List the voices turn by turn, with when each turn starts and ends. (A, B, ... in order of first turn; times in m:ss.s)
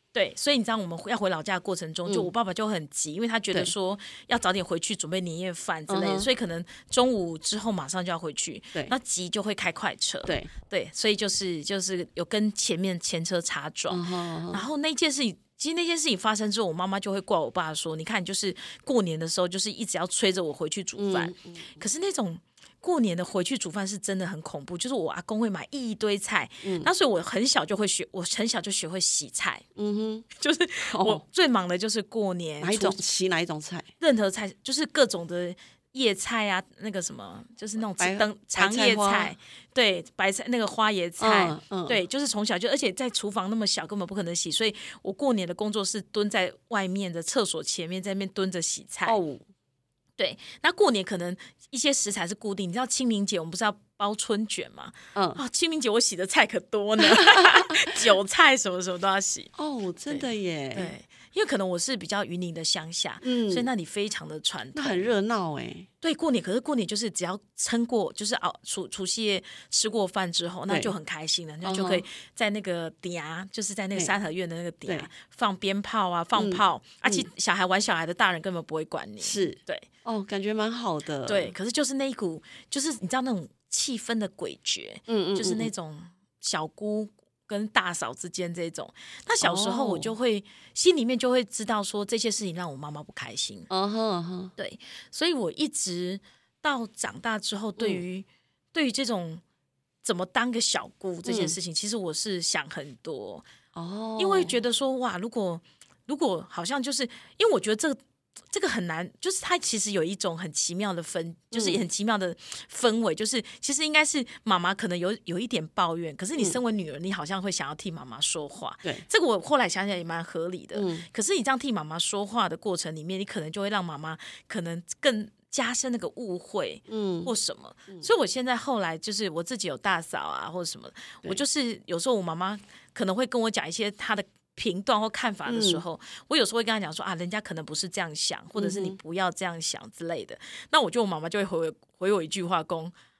0:00.1-0:29.6 A
0:05.9-0:06.3 B
0:13.9-0:14.6 B
0:21.0-0:21.8 B
0:26.6-0:26.9 B
0:29.8-0:30.2 B
0:30.4-0:33.0 A
0:30.9-0:31.2 B
0:32.6-0:33.9 B
0:34.0-0:49.2 A
0:38.0-0:39.3 B
0:41.2-0:42.0 B
0:49.1-0:49.4 B
0:50.2-0:59.5 A
0:55.1-0:55.4 B
0:57.0-0:57.8 B
0:59.6-1:00.9 B
1:00.1-1:05.1 A
1:03.2-1:03.7 B
1:04.8-1:05.9 B
1:06.0-1:19.9 A
1:11.6-1:12.0 B
1:16.4-1:17.3 B
1:19.2-1:21.5 B
1:21.3-1:33.7 A
1:25.1-1:25.7 B
1:29.4-1:30.1 B
1:33.7-1:34.5 B
1:34.6-1:39.4 A
1:40.0-1:43.4 A
1:41.2-1:41.6 B
1:43.7-1:44.5 B
1:44.2-1:48.0 A
1:48.5-2:22.9 A
1:51.5-1:51.8 B
2:00.7-2:01.0 B
2:06.9-2:07.3 B
2:15.5-2:15.8 B
2:18.5-2:19.0 B